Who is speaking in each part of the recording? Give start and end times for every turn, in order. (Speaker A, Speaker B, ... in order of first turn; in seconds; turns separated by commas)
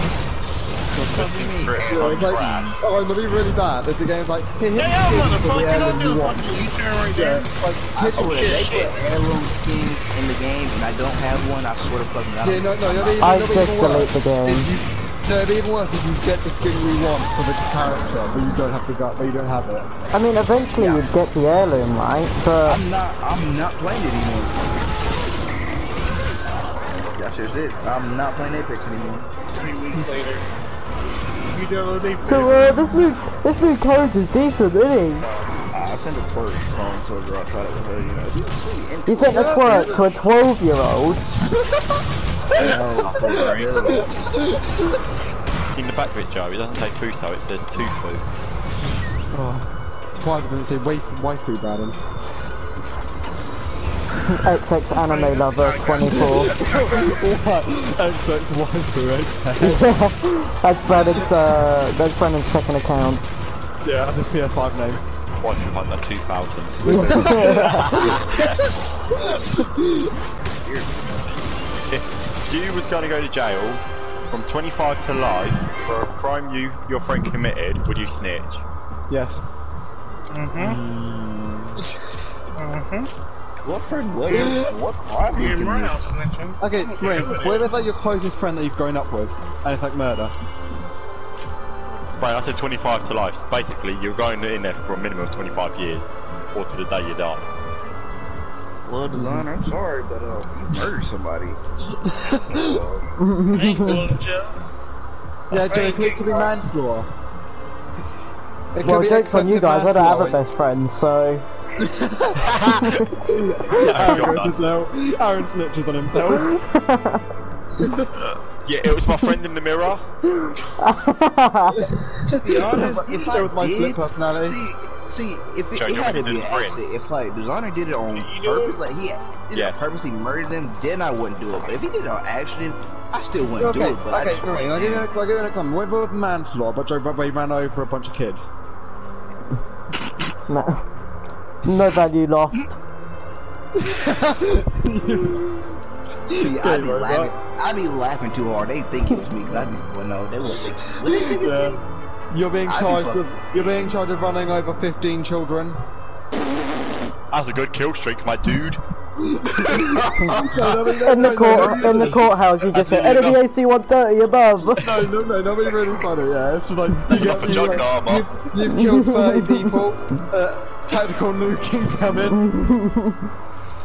Speaker A: 0.9-2.8, Speaker B: 0.9-2.7, Speaker C: 1.9-6.5, Speaker D: 4.8-7.5, Speaker C: 7.1-8.9, Speaker A: 7.9-13.2, Speaker D: 8.1-9.1, Speaker C: 12.4-19.9, Speaker E: 13.2-14.7, Speaker E: 20.1-22.8, Speaker A: 20.8-21.1, Speaker A: 22.6-24.8, Speaker A: 27.1-29.3, Speaker D: 29.5-30.4, Speaker D: 31.4-32.8, Speaker E: 32.2-35.3, Speaker A: 35.7-39.9, Speaker E: 39.1-41.2, Speaker C: 39.3-40.0, Speaker C: 41.6-41.8, Speaker A: 42.5-44.1, Speaker B: 42.8-43.8, Speaker B: 45.7-48.2, Speaker C: 49.3-52.0, Speaker E: 54.3-56.5, Speaker D: 55.0-57.1, Speaker C: 56.1-59.8, Speaker E: 59.6-63.2, Speaker C: 63.8-65.0, Speaker B: 65.4-67.3, Speaker C: 66.8-68.6, Speaker E: 66.9-67.9, Speaker B: 67.8-68.5, Speaker C: 69.3-70.1, Speaker A: 70.6-71.2, Speaker B: 71.9-78.6, Speaker C: 79.1-79.4, Speaker D: 80.3-80.8, Speaker A: 80.6-81.8, Speaker D: 82.6-83.1, Speaker A: 83.6-86.1, Speaker D: 84.3-84.7, Speaker D: 85.3-87.7, Speaker C: 86.6-90.3, Speaker B: 92.2-97.5, Speaker A: 98.8-101.6, Speaker C: 102.0-102.6, Speaker A: 102.5-103.0, Speaker E: 103.2-104.1, Speaker D: 103.5-104.6, Speaker C: 105.5-107.1, Speaker D: 105.5-106.5, Speaker C: 108.7-110.4, Speaker E: 108.8-111.4, Speaker C: 111.8-116.5, Speaker B: 113.7-114.6, Speaker E: 116.2-117.2, Speaker C: 117.8-118.1, Speaker B: 118.6-120.1, Speaker E: 120.8-121.9, Speaker C: 121.8-124.6, Speaker A: 122.2-135.1, Speaker B: 125.7-126.8, Speaker D: 128.1-128.8, Speaker B: 129.5-129.8, Speaker C: 133.6-138.5, Speaker E: 140.5-140.8, Speaker E: 141.6-142.7, Speaker C: 143.8-145.6, Speaker C: 146.3-147.3, Speaker A: 146.3-151.8, Speaker C: 151.1-151.8, Speaker C: 152.3-155.8, Speaker A: 152.6-153.9, Speaker B: 157.3-158.8, Speaker C: 159.6-162.2, Speaker B: 159.7-160.4, Speaker E: 161.0-164.9, Speaker B: 162.6-163.4, Speaker C: 164.8-172.4, Speaker B: 167.1-168.3, Speaker E: 168.7-169.8, Speaker E: 172.3-173.2